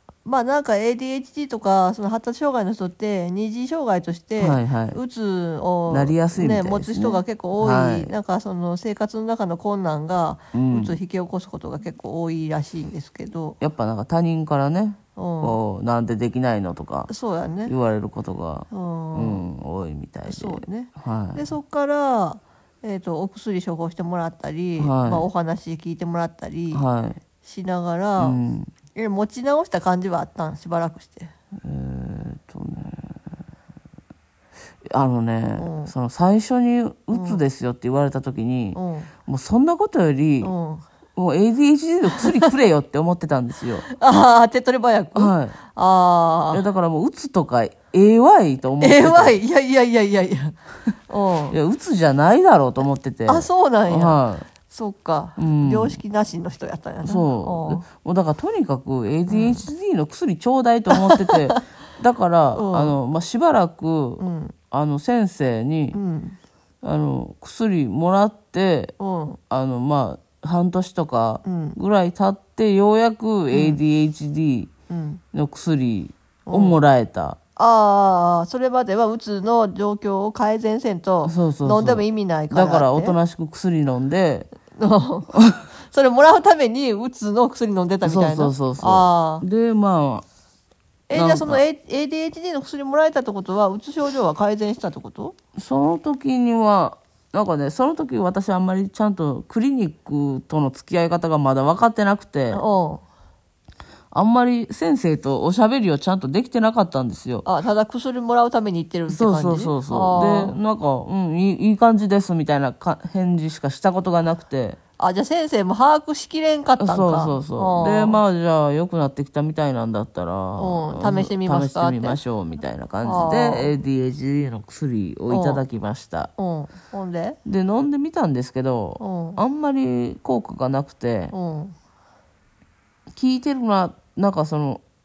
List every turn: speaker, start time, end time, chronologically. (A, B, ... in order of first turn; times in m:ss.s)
0:00.2-0:13.6 A
0:04.4-0:05.0 B
0:05.9-0:08.2 B
0:10.5-0:11.0 B
0:13.6-0:17.1 B
0:15.2-0:15.6 A
0:17.1-0:17.7 A
0:17.7-0:21.5 B
0:18.7-0:19.4 A
0:20.3-0:26.8 A
0:24.8-0:25.3 B
0:26.7-0:27.2 B
0:27.4-0:28.4 A
0:28.2-0:28.7 B
0:29.0-0:31.3 A
0:31.6-0:33.2 B
0:34.9-0:40.5 B
0:35.6-0:35.9 A
0:37.1-0:37.4 A
0:38.8-0:39.1 A
0:40.4-0:40.8 A
0:41.2-0:43.9 B
0:42.1-0:42.5 A
0:43.9-0:46.6 A
0:45.2-0:45.6 B
0:46.5-0:49.4 B
0:48.8-0:50.6 A
0:51.1-0:51.6 A
0:51.5-0:54.5 B
0:53.3-0:57.8 A
0:55.4-0:56.0 B
0:57.0-1:06.0 B
0:59.3-0:59.7 A
1:01.0-1:01.6 A
1:02.5-1:03.0 A
1:04.2-1:04.6 A
1:05.9-1:06.4 A
1:06.8-1:08.9 B
1:09.0-1:09.4 A
1:09.5-1:14.7 B
1:11.4-1:11.8 A
1:13.5-1:13.8 A
1:14.9-1:15.2 A
1:15.3-1:17.4 B
1:16.5-1:16.8 A
1:17.6-1:23.2 A
1:21.2-1:24.5 B
1:24.7-1:29.4 A
1:25.3-1:25.6 B
1:28.0-1:30.2 B
1:31.1-1:35.4 A
1:31.1-1:31.6 B
1:35.6-1:42.6 B
1:42.5-1:43.0 A
1:44.1-1:47.5 B
1:47.4-1:50.6 A
1:49.1-1:54.8 B
1:55.0-1:58.2 A
1:56.8-2:06.3 B
2:00.6-2:02.2 A
2:03.0-2:03.7 A
2:05.3-2:05.6 A
2:06.4-2:07.4 A
2:07.4-2:11.3 B
2:09.0-2:09.4 A
2:11.3-2:11.8 A
2:13.2-2:14.8 B